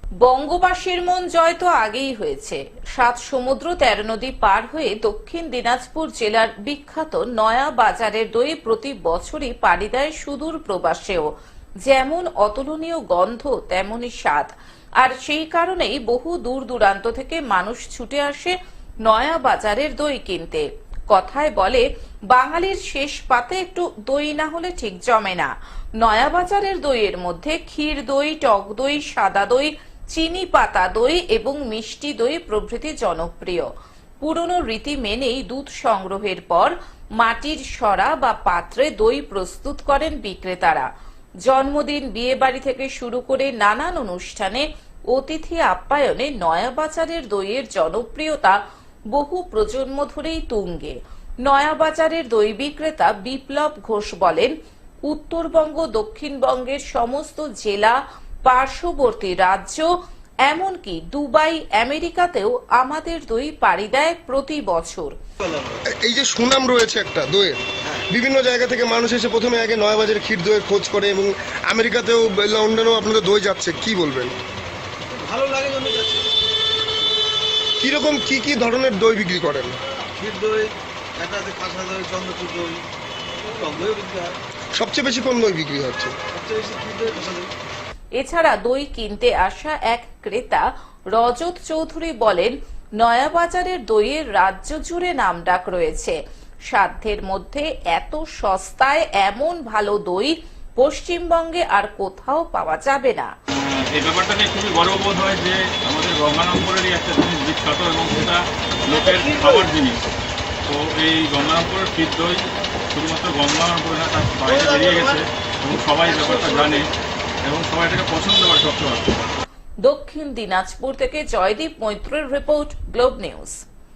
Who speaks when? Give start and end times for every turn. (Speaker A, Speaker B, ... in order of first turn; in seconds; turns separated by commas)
Speaker A: 0.2-11.3, Speaker A: 11.8-18.5, Speaker A: 19.1-25.5, Speaker A: 26.0-33.7, Speaker A: 34.2-40.9, Speaker A: 41.5-48.6, Speaker A: 49.1-54.5, Speaker A: 55.1-59.9, Speaker A: 60.5-65.1, Speaker B: 65.4-65.8, Speaker C: 65.9-74.3, Speaker B: 67.8-68.1, Speaker B: 75.1-76.3, Speaker C: 77.8-79.7, Speaker B: 80.1-82.8, Speaker B: 83.4-84.3, Speaker C: 84.7-86.1, Speaker B: 86.3-87.5, Speaker A: 88.2-96.2, Speaker A: 96.7-103.3, Speaker D: 103.5-110.1, Speaker B: 108.9-109.7, Speaker D: 110.7-116.9, Speaker B: 114.5-115.2, Speaker B: 116.0-116.8, Speaker D: 117.4-119.2, Speaker A: 119.8-123.6